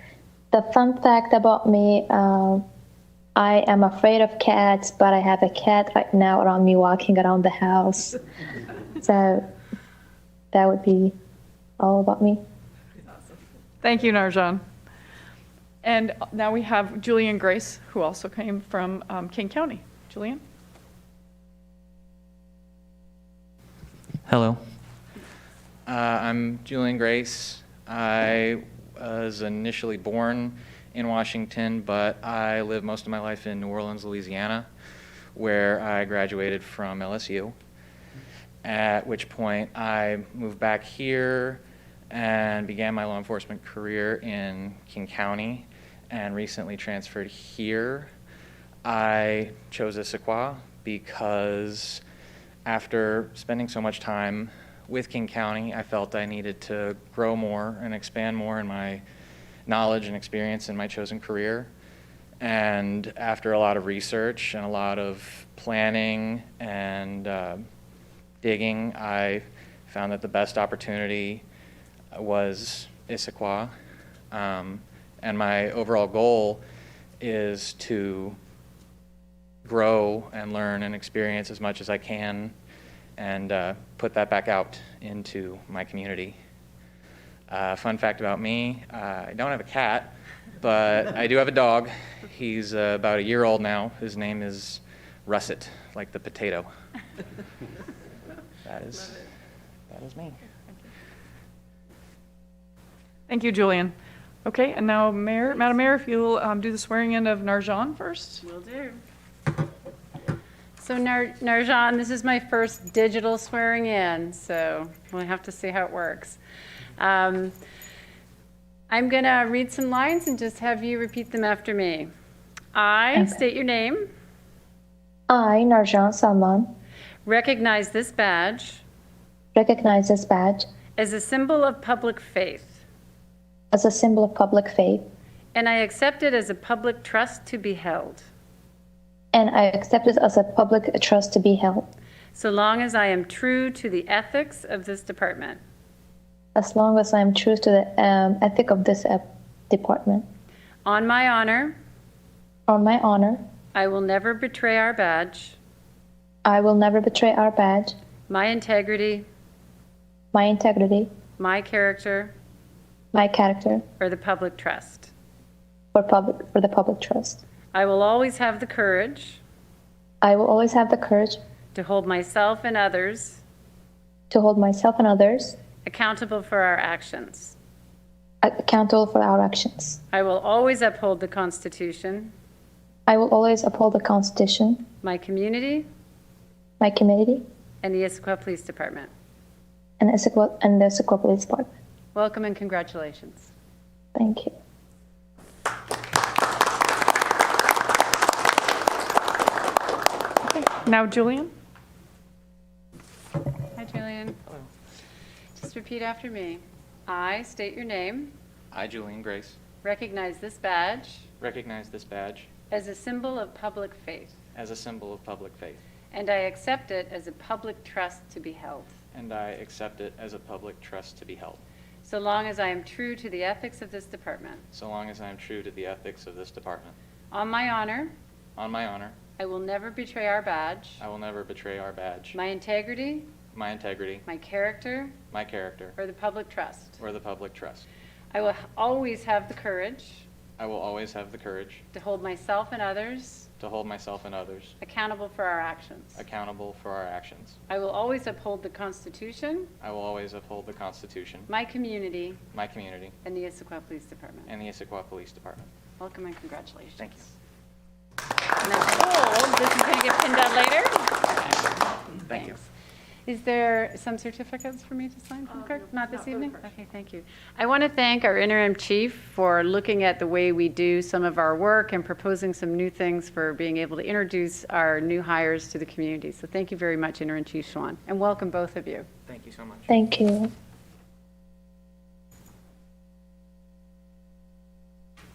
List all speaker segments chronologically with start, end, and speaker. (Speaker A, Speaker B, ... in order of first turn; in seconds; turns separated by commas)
Speaker A: 0.5-2.6, Speaker A: 3.4-8.2, Speaker A: 9.0-9.5, Speaker A: 10.5-11.2, Speaker A: 11.8-12.4, Speaker B: 13.8-14.6, Speaker B: 15.8-20.4, Speaker C: 24.3-24.6, Speaker C: 25.9-34.7, Speaker C: 35.4-37.5, Speaker C: 38.6-48.1, Speaker C: 48.9-52.0, Speaker C: 52.7-59.0, Speaker C: 59.7-61.7, Speaker C: 62.4-67.6, Speaker C: 68.4-71.4, Speaker C: 72.1-73.7, Speaker C: 74.3-76.6, Speaker C: 77.2-78.4, Speaker C: 79.7-82.5, Speaker C: 83.2-86.4, Speaker C: 87.5-96.7, Speaker C: 98.7-99.3, Speaker C: 99.9-100.4, Speaker B: 103.3-103.9, Speaker B: 104.5-108.4, Speaker D: 108.5-109.0, Speaker D: 110.8-116.4, Speaker D: 117.0-117.6, Speaker D: 118.9-122.1, Speaker D: 122.7-124.1, Speaker A: 123.1-123.4, Speaker A: 125.3-126.7, Speaker D: 127.3-128.8, Speaker A: 129.6-130.7, Speaker D: 131.0-132.8, Speaker A: 133.7-135.1, Speaker D: 135.5-138.3, Speaker A: 139.3-141.9, Speaker D: 142.3-145.6, Speaker A: 146.6-150.3, Speaker D: 150.8-151.8, Speaker A: 152.7-153.4, Speaker D: 153.8-155.6, Speaker A: 156.4-157.9, Speaker D: 158.3-159.3, Speaker A: 160.3-161.1, Speaker D: 161.4-162.3, Speaker A: 163.1-163.8, Speaker D: 164.0-165.1, Speaker A: 165.9-167.4, Speaker D: 167.7-169.4, Speaker A: 170.2-171.4, Speaker D: 171.7-173.4, Speaker A: 174.3-175.6, Speaker D: 175.8-177.6, Speaker A: 178.4-180.0, Speaker D: 180.1-182.3, Speaker A: 183.1-184.8, Speaker D: 185.0-185.9, Speaker A: 186.8-187.4, Speaker D: 187.8-189.1, Speaker A: 190.0-191.7, Speaker D: 192.1-193.5, Speaker A: 194.2-194.5, Speaker B: 200.5-201.5, Speaker D: 203.8-204.4, Speaker D: 205.6-208.3, Speaker C: 208.7-209.6, Speaker D: 209.8-211.3, Speaker C: 211.4-212.5, Speaker D: 212.7-214.3, Speaker C: 214.6-215.8, Speaker D: 216.1-218.9, Speaker C: 219.1-221.6, Speaker D: 222.0-224.7, Speaker C: 224.7-227.0, Speaker D: 227.3-228.1, Speaker C: 228.6-229.2, Speaker D: 229.4-231.0, Speaker C: 231.0-232.4, Speaker D: 232.3-233.3, Speaker C: 233.5-234.2, Speaker D: 234.3-235.2, Speaker C: 235.3-236.0, Speaker D: 236.0-237.0, Speaker C: 237.0-237.9, Speaker D: 238.3-240.2, Speaker C: 240.6-241.8, Speaker D: 241.9-243.5, Speaker C: 243.6-244.8, Speaker D: 244.8-246.2, Speaker C: 246.2-247.6, Speaker D: 247.7-249.7, Speaker C: 249.8-251.5, Speaker D: 251.5-252.4, Speaker C: 252.5-253.2, Speaker D: 253.2-254.5, Speaker C: 254.5-255.7, Speaker D: 256.0-257.2, Speaker C: 257.0-257.3, Speaker D: 258.6-262.6, Speaker C: 262.3-262.6, Speaker D: 263.3-279.1, Speaker C: 279.3-279.9, Speaker A: 279.9-280.5